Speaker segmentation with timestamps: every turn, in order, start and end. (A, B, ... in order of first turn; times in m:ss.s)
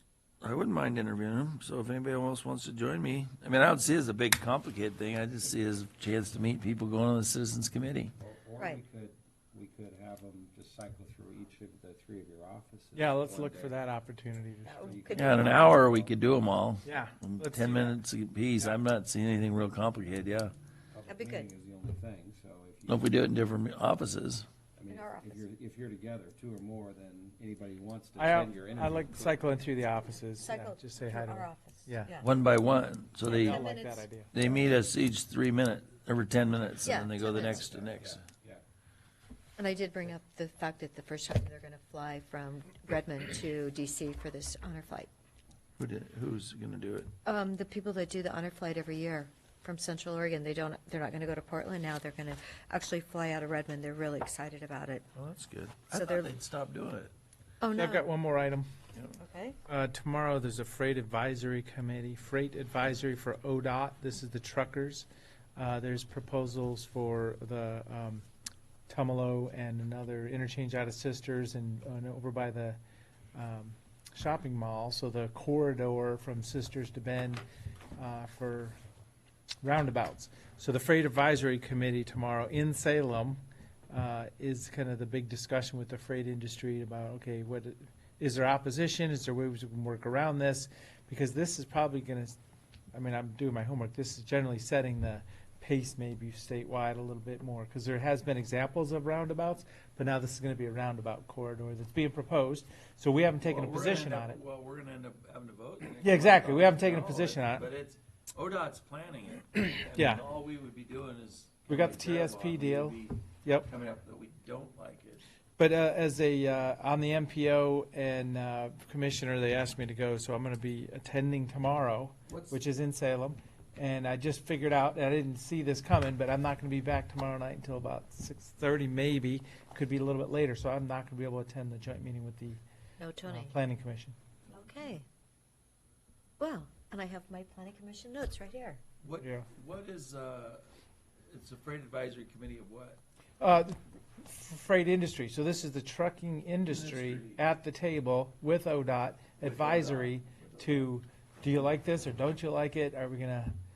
0:00.4-0:08.1 A
0:08.2-0:13.7 B
0:12.9-0:15.6 C
0:14.6-0:15.5 D
0:14.8-0:16.2 B
0:15.1-0:20.5 A
0:16.8-0:18.0 C
0:20.9-0:23.3 B
0:21.1-0:21.5 D
0:22.9-0:24.5 A
0:24.8-0:29.4 B
0:24.9-0:25.4 D
0:28.2-0:32.2 C
0:30.4-0:32.3 D
0:32.2-0:33.6 A
0:33.2-0:34.0 D
0:33.4-0:34.4 C
0:34.3-0:38.2 A
0:36.8-0:37.7 D
0:37.3-0:38.6 B
0:39.6-0:45.1 D
0:45.8-0:47.1 A
0:47.2-0:55.0 D
0:55.2-0:57.1 A
0:55.9-0:56.3 D
0:57.6-0:58.0 D
0:57.7-0:58.7 C
0:58.9-0:59.2 A
0:59.2-0:59.6 D
0:59.6-1:08.2 C
1:08.9-1:12.8 C
1:13.3-1:17.4 C
1:18.0-1:18.8 C
1:19.6-1:32.4 C
1:32.9-1:44.4 C
1:43.4-1:55.3 A
1:46.0-1:47.7 C
1:49.9-1:50.2 C
1:51.7-1:53.7 C
1:55.6-2:12.6 C
2:02.3-2:02.6 A
2:13.0-2:13.5 D
2:13.2-2:14.2 C
2:14.5-2:15.0 D
2:16.4-2:18.8 D
2:19.0-2:20.6 A
2:19.2-2:19.5 C
2:21.3-2:23.0 A
2:23.4-2:33.5 C
2:26.7-2:27.4 A
2:29.4-2:30.9 A